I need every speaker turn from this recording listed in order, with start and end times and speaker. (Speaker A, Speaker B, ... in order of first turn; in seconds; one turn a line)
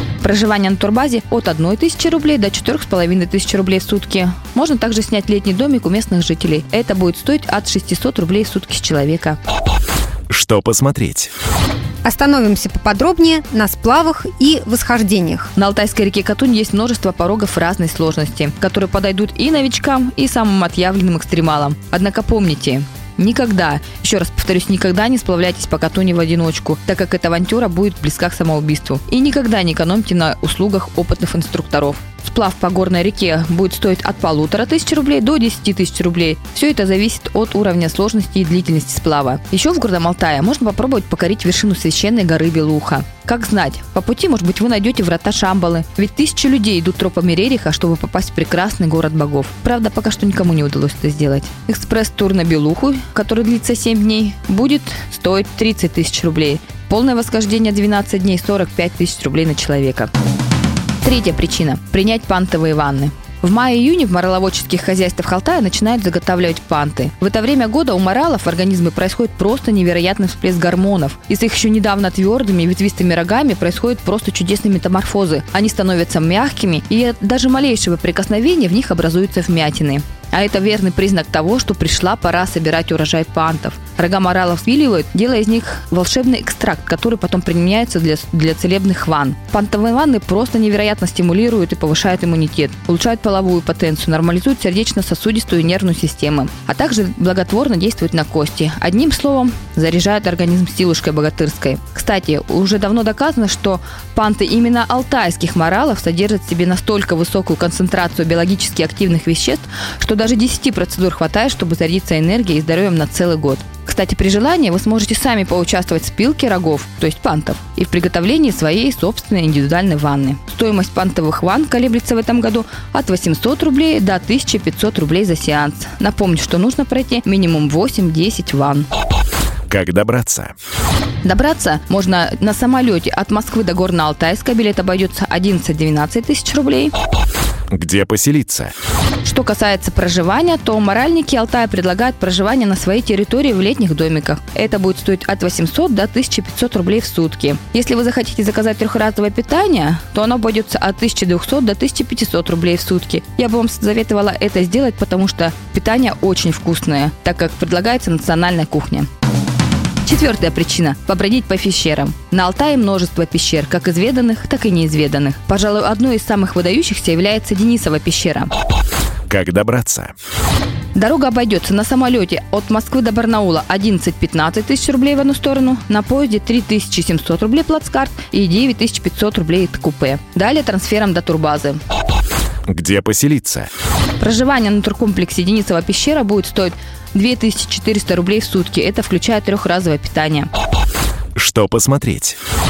Speaker A: 0.2-9.4
Speaker B: 10.3-11.3
Speaker C: 12.0-15.5
Speaker A: 15.6-60.1
Speaker A: 61.0-128.9
Speaker B: 129.7-130.5
Speaker A: 131.2-136.9
Speaker B: 137.7-138.7
Speaker A: 139.2-159.1
Speaker A: 160.1-168.5
Speaker B: 169.3-170.1
Speaker A: 170.9-181.8
Speaker B: 182.7-183.7
Speaker A: 184.2-190.5
Speaker B: 191.4-192.4